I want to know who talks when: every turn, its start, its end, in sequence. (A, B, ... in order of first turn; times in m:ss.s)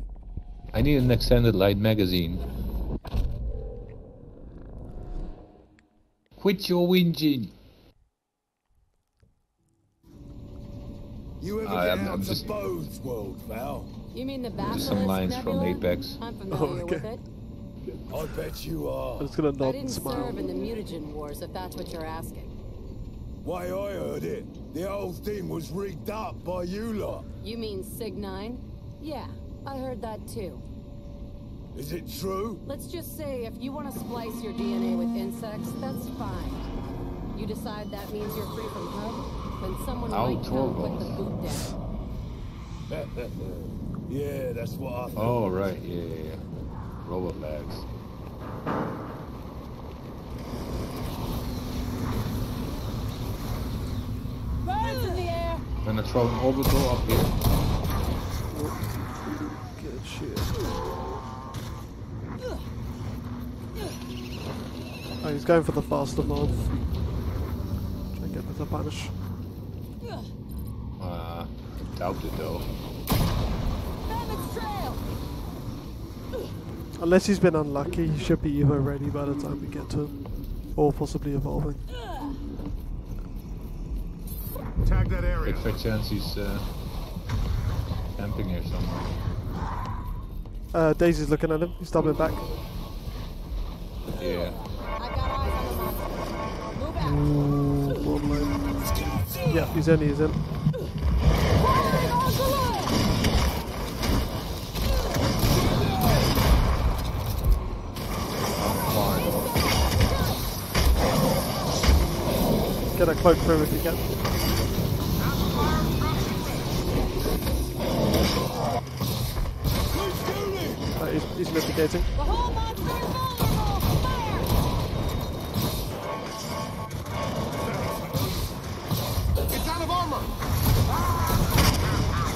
0:00.7-0:02.4 A
0:06.4-0:07.5 A
0:11.4-0:13.9 B
0:11.6-0:12.5 A
0:14.1-0:17.2 C
0:14.6-0:16.2 A
0:16.5-0:17.1 D
0:18.1-0:19.4 B
0:19.2-0:20.4 D
0:19.6-0:22.5 C
0:23.4-0:27.3 B
0:27.4-0:30.6 C
0:31.7-0:32.6 B
0:32.7-0:36.7 C
0:37.3-0:41.8 C
0:40.1-0:41.2 A
0:42.9-0:45.4 B
0:45.2-0:46.4 A
0:47.0-0:47.9 A
0:54.6-0:55.6 C
0:55.8-0:57.3 A
0:58.5-0:58.9 D
0:59.6-1:00.6 D
1:05.2-1:06.6 D
1:08.1-1:09.2 D
1:11.0-1:12.7 A
1:14.1-1:15.0 C
1:17.0-1:20.1 D
1:20.8-1:21.8 D
1:24.8-1:25.6 E
1:25.4-1:26.7 A
1:28.2-1:29.1 A
1:30.7-1:32.5 D
1:34.2-1:34.6 A
1:34.3-1:37.3 C
1:37.0-1:38.7 D
1:38.8-1:39.8 B
1:39.5-1:40.4 D
1:41.6-1:42.9 C
1:45.5-1:46.3 B
1:48.6-1:49.5 A
1:52.9-1:54.0 D
1:55.2-1:56.8 E
1:59.9-2:00.9 B
2:01.0-2:02.1 D
2:02.2-2:04.5 C
2:07.6-2:08.3 E
2:09.5-2:10.3 E